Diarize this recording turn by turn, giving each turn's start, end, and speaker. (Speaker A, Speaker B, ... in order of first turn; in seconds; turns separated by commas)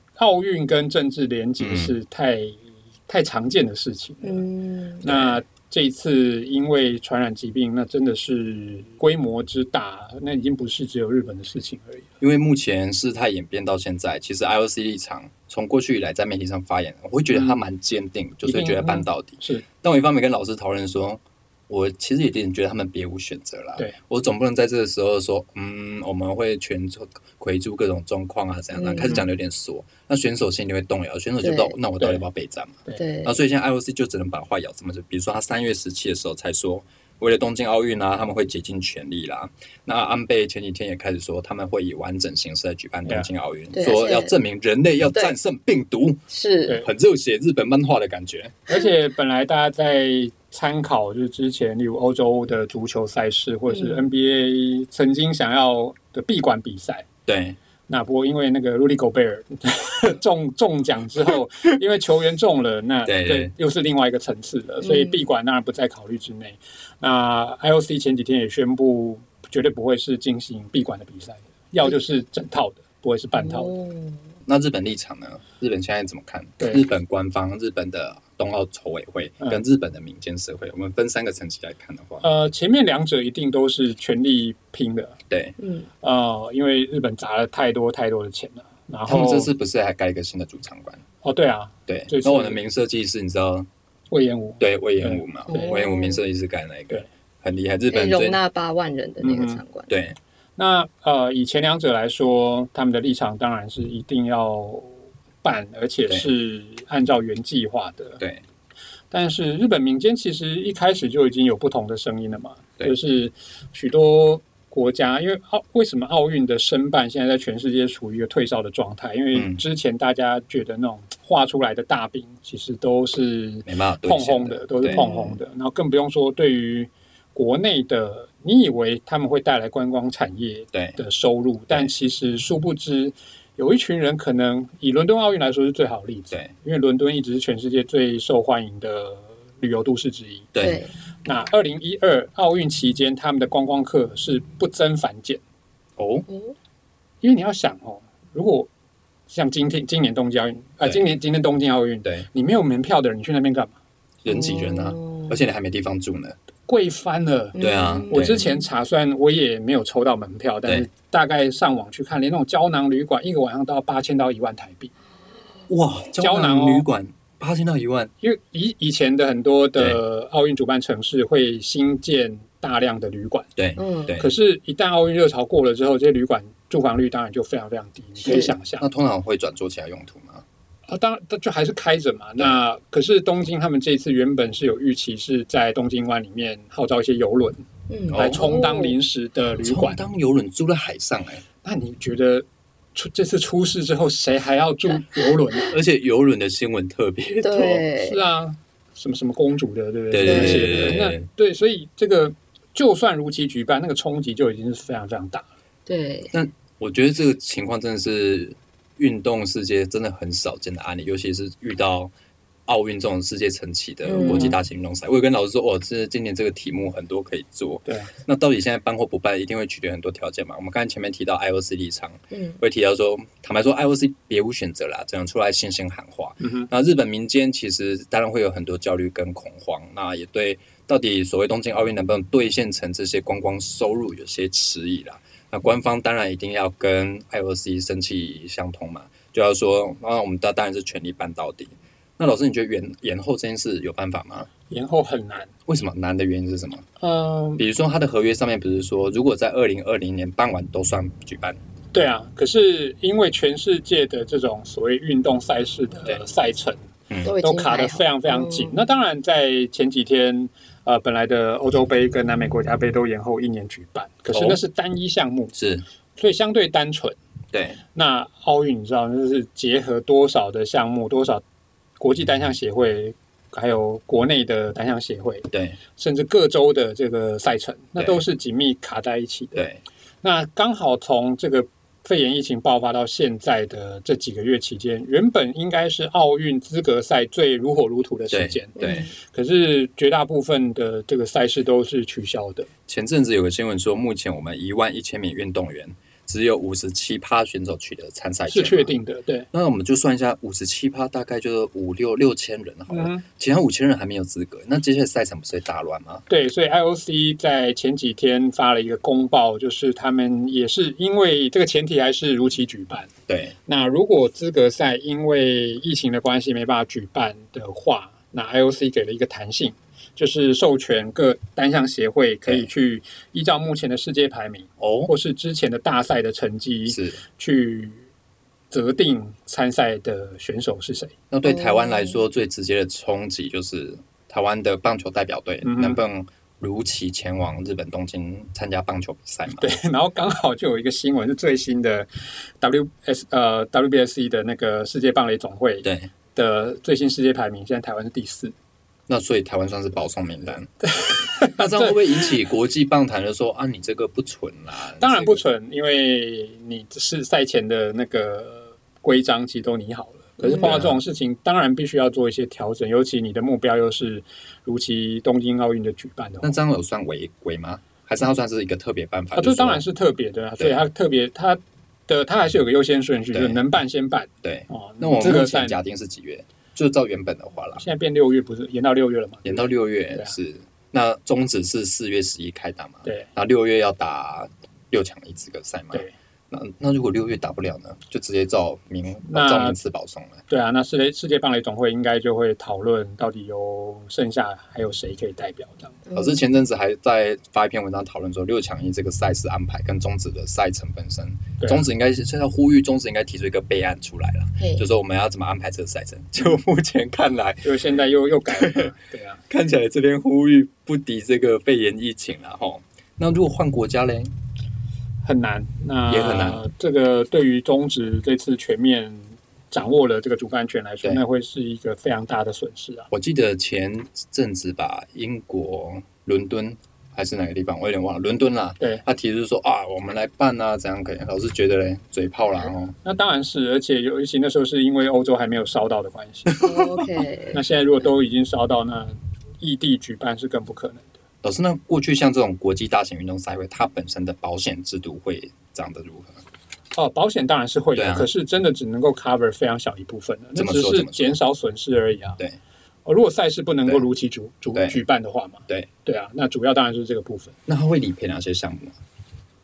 Speaker A: 0.1-4.4, Speaker B: 1.6-1.9, Speaker C: 4.2-5.1, Speaker B: 5.0-5.4, Speaker A: 5.0-12.1, Speaker B: 12.2-46.2, Speaker A: 17.3-17.6, Speaker A: 18.4-19.6, Speaker C: 28.7-29.2, Speaker A: 29.0-29.2, Speaker C: 31.4-31.7, Speaker C: 33.0-33.4, Speaker C: 43.7-44.3, Speaker C: 46.3-46.8, Speaker B: 46.8-48.6, Speaker A: 48.7-57.1, Speaker C: 53.7-54.0, Speaker B: 57.2-57.6, Speaker A: 57.9-73.7, Speaker B: 63.0-63.5, Speaker C: 64.8-65.2, Speaker C: 73.3-74.2, Speaker B: 74.5-82.2, Speaker A: 76.6-76.8, Speaker A: 82.2-85.2, Speaker B: 85.3-85.5, Speaker C: 85.6-85.9, Speaker A: 86.0-89.5, Speaker B: 89.1-91.0, Speaker A: 91.2-92.6, Speaker B: 91.9-93.7, Speaker A: 94.1-95.9, Speaker B: 94.6-98.4, Speaker C: 95.5-96.2, Speaker C: 97.9-99.9, Speaker A: 99.2-99.6, Speaker B: 99.9-100.2, Speaker A: 100.6-108.2, Speaker A: 109.1-140.5, Speaker B: 119.3-119.6, Speaker B: 123.7-125.0, Speaker C: 124.8-125.4, Speaker B: 130.7-131.0, Speaker B: 140.5-140.8, Speaker C: 140.6-140.9, Speaker A: 141.2-145.4, Speaker B: 146.0-146.3, Speaker C: 146.3-146.5, Speaker A: 147.2-148.7, Speaker A: 149.3-153.8, Speaker B: 154.2-156.3, Speaker C: 154.2-155.3, Speaker A: 156.7-164.9, Speaker C: 157.5-158.7, Speaker B: 157.6-158.4, Speaker B: 165.7-168.1, Speaker A: 166.2-166.8, Speaker A: 168.2-173.5, Speaker B: 173.6-174.3, Speaker C: 173.8-174.1, Speaker A: 174.2-178.9, Speaker B: 178.8-180.4, Speaker A: 180.9-190.0, Speaker C: 187.9-189.0, Speaker B: 188.1-188.4, Speaker B: 189.6-191.4, Speaker A: 191.6-195.8, Speaker B: 195.7-197.8, Speaker C: 197.4-198.2, Speaker A: 198.0-205.5, Speaker B: 200.1-201.2, Speaker C: 200.2-201.0, Speaker C: 205.8-206.3, Speaker B: 206.3-212.1, Speaker B: 212.7-244.5, Speaker C: 214.1-214.6, Speaker A: 214.2-214.5, Speaker A: 217.8-218.1, Speaker C: 222.3-222.6, Speaker A: 226.4-226.7, Speaker A: 244.7-245.5, Speaker B: 245.7-246.8, Speaker A: 247.0-247.6, Speaker B: 247.6-251.6, Speaker A: 251.9-256.9, Speaker C: 257.2-258.8, Speaker A: 257.4-265.5, Speaker B: 264.3-264.6, Speaker B: 265.5-265.8, Speaker A: 266.1-267.2, Speaker B: 267.5-267.8, Speaker A: 267.9-271.4, Speaker A: 272.0-279.7, Speaker B: 275.5-275.8, Speaker B: 278.0-278.2, Speaker B: 279.5-279.8, Speaker A: 280.2-292.7, Speaker B: 288.3-289.1, Speaker C: 288.8-289.1, Speaker B: 292.9-298.9, Speaker A: 298.5-299.5, Speaker B: 299.5-306.3, Speaker A: 302.9-303.2, Speaker A: 306.3-313.1, Speaker B: 313.3-313.5, Speaker A: 313.6-328.1, Speaker B: 324.8-325.1, Speaker B: 326.9-327.2, Speaker A: 328.7-331.1, Speaker B: 331.3-339.7, Speaker C: 331.4-332.2, Speaker A: 335.6-336.0, Speaker A: 339.6-348.5, Speaker B: 345.8-346.1, Speaker B: 349.1-355.4, Speaker A: 350.9-352.0, Speaker A: 355.0-366.6, Speaker C: 360.4-360.8, Speaker B: 360.5-361.0, Speaker B: 366.4-369.8, Speaker A: 369.3-375.8, Speaker B: 373.3-373.6, Speaker B: 374.4-377.8, Speaker A: 377.8-380.4, Speaker B: 379.4-390.4, Speaker A: 389.3-389.8, Speaker A: 390.5-396.0, Speaker C: 396.1-396.3, Speaker B: 396.1-407.8, Speaker A: 401.6-401.9, Speaker C: 404.6-404.8, Speaker A: 407.6-409.4, Speaker B: 408.5-408.9, Speaker B: 409.5-414.3, Speaker A: 415.2-423.1, Speaker B: 416.1-416.6, Speaker B: 423.1-432.9, Speaker A: 433.0-436.7, Speaker B: 436.5-436.9, Speaker C: 436.6-437.6, Speaker A: 437.5-441.1, Speaker B: 441.4-446.4, Speaker A: 446.9-452.4, Speaker B: 447.9-448.3, Speaker B: 450.6-451.4, Speaker A: 453.1-457.5, Speaker B: 454.7-455.0, Speaker B: 457.7-459.0